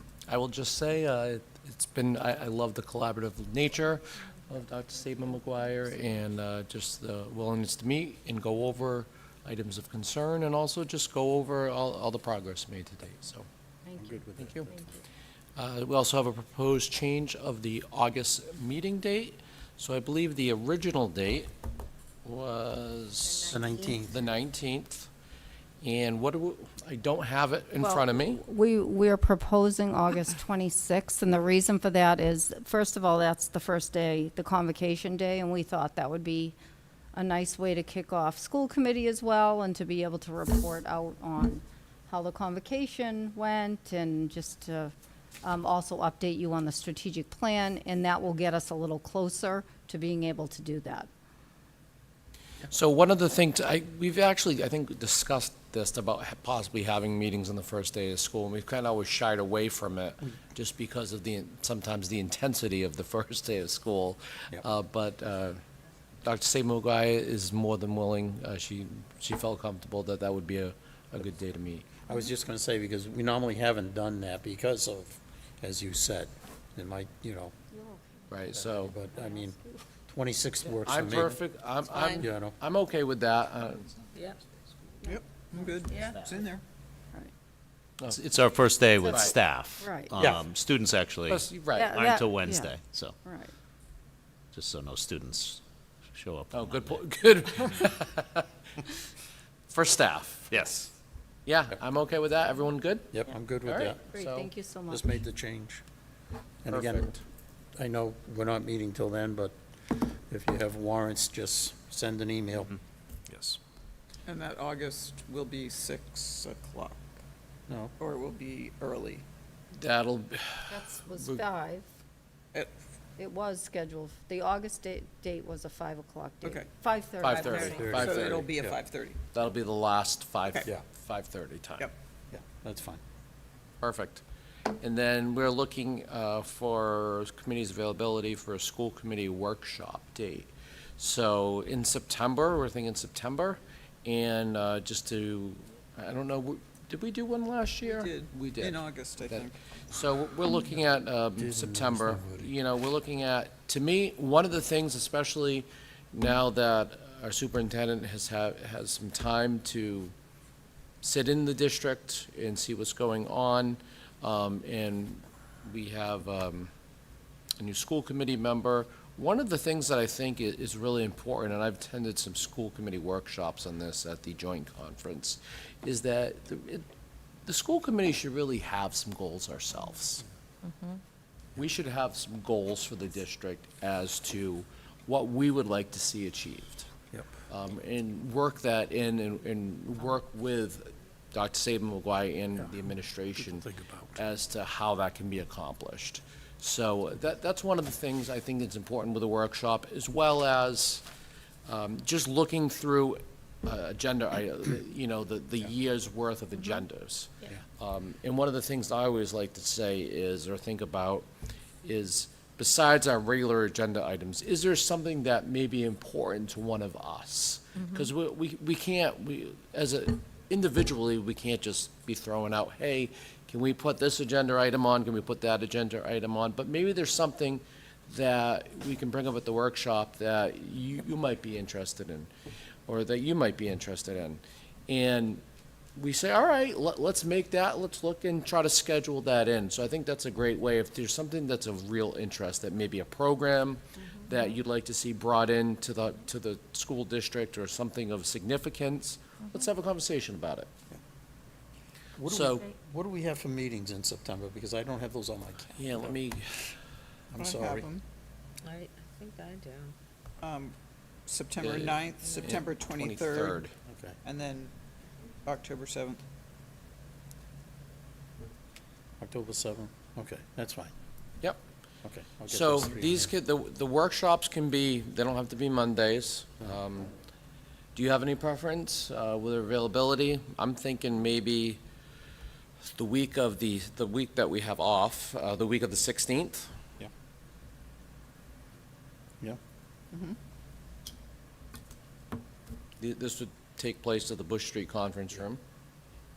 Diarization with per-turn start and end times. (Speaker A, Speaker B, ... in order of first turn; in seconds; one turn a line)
Speaker A: 0.3-13.5
Speaker B: 14.0-14.9
Speaker A: 14.4-14.7
Speaker A: 15.6-21.5
Speaker A: 22.2-23.5
Speaker B: 23.4-24.2
Speaker A: 24.1-25.1
Speaker A: 25.8-28.4
Speaker C: 27.8-36.6
Speaker C: 37.1-51.1
Speaker A: 52.7-65.6
Speaker A: 66.2-71.9
Speaker B: 72.1-77.5
Speaker C: 77.7-78.3
Speaker A: 78.3-79.0
Speaker B: 78.5-79.6
Speaker C: 79.1-79.8
Speaker B: 80.1-81.4
Speaker A: 80.8-83.9
Speaker D: 81.9-82.2
Speaker B: 82.2-82.6
Speaker E: 85.1-86.6
Speaker D: 85.9-86.3
Speaker F: 88.1-93.2
Speaker C: 89.0-90.2
Speaker A: 89.1-89.4
Speaker B: 90.2-90.4
Speaker A: 91.3-92.0
Speaker C: 91.7-93.5
Speaker F: 94.5-95.6
Speaker F: 96.1-97.1
Speaker A: 96.5-98.5
Speaker A: 99.7-100.5
Speaker F: 100.5-100.9
Speaker A: 101.5-104.5
Speaker B: 103.1-104.0
Speaker C: 104.1-105.1
Speaker B: 104.9-105.8
Speaker B: 106.7-107.2
Speaker A: 106.7-107.2
Speaker B: 107.8-112.7
Speaker F: 113.3-113.6
Speaker E: 114.3-117.0
Speaker E: 118.0-119.2
Speaker A: 119.8-121.4
Speaker C: 120.7-121.9
Speaker C: 123.2-128.0
Speaker A: 127.2-128.5
Speaker E: 127.2-129.2
Speaker B: 127.7-128.8
Speaker A: 129.3-131.9
Speaker B: 132.3-133.0
Speaker A: 133.8-134.2
Speaker A: 134.8-160.1
Speaker E: 147.8-149.6
Speaker B: 151.3-152.5
Speaker A: 161.0-166.7
Speaker A: 167.6-176.9
Speaker A: 177.5-180.2
Speaker A: 181.6-186.9
Speaker A: 187.5-193.7
Speaker B: 192.6-194.2
Speaker A: 194.2-201.0
Speaker A: 201.7-211.3
Speaker A: 211.8-232.3
Speaker A: 232.9-235.4
Speaker A: 236.0-250.7
Speaker B: 252.2-256.2
Speaker A: 252.3-252.7
Speaker A: 255.8-256.7
Speaker B: 257.3-257.9
Speaker E: 257.4-258.0
Speaker D: 258.6-259.9
Speaker E: 260.4-260.7
Speaker E: 261.3-263.6
Speaker A: 261.6-263.7
Speaker B: 263.9-264.2
Speaker E: 264.2-264.7
Speaker E: 265.5-266.2
Speaker B: 269.2-270.9
Speaker B: 272.0-273.3
Speaker A: 272.5-277.1
Speaker A: 278.0-281.8
Speaker A: 282.9-286.7
Speaker A: 293.0-295.6